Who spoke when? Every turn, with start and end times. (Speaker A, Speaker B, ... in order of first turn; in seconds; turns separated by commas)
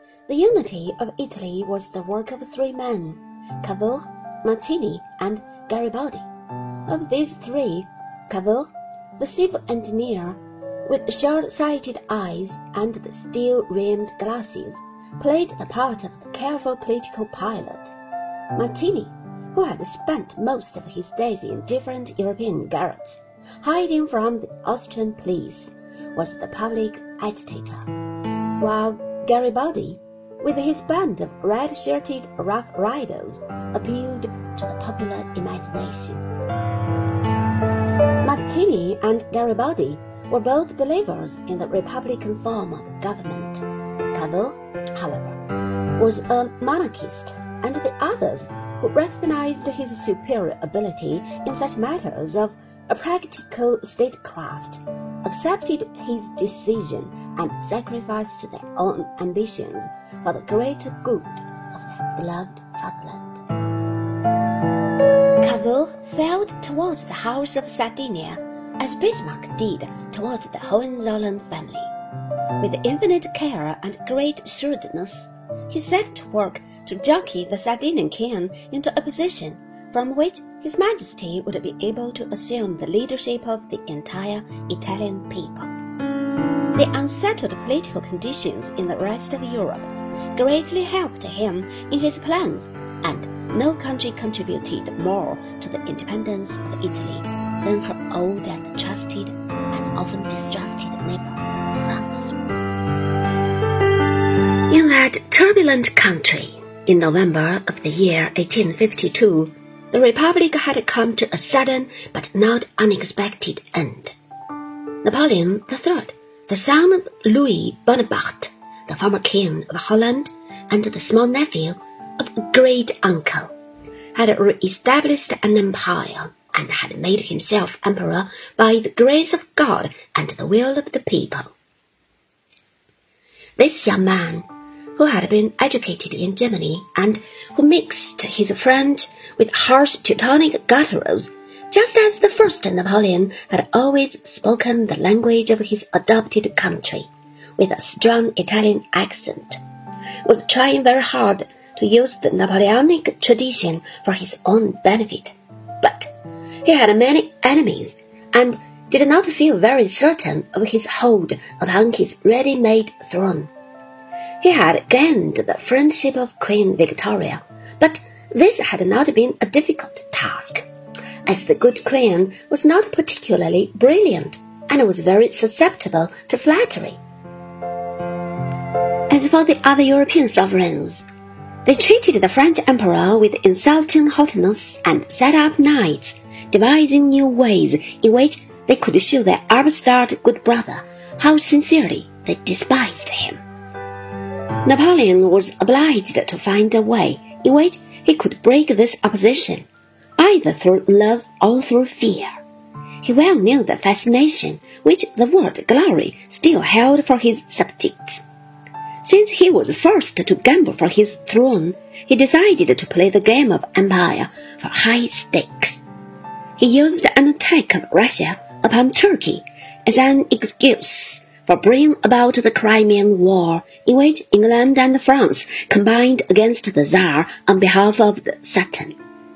Speaker A: 0.3-6.3, Speaker A: 6.9-17.9, Speaker A: 18.6-27.9, Speaker A: 28.6-36.2, Speaker A: 38.2-45.4, Speaker A: 46.0-63.4, Speaker A: 65.4-71.9, Speaker A: 72.6-85.7, Speaker A: 86.7-102.4, Speaker A: 104.7-114.1, Speaker A: 115.0-123.5, Speaker A: 124.2-131.5, Speaker A: 133.6-149.6, Speaker A: 150.2-156.1, Speaker A: 156.7-163.5, Speaker A: 164.4-170.7, Speaker A: 171.3-177.0, Speaker A: 179.1-181.1, Speaker A: 181.7-193.4, Speaker A: 194.6-199.7, Speaker A: 200.2-202.4, Speaker A: 203.0-208.2, Speaker A: 209.0-215.8, Speaker A: 216.6-229.0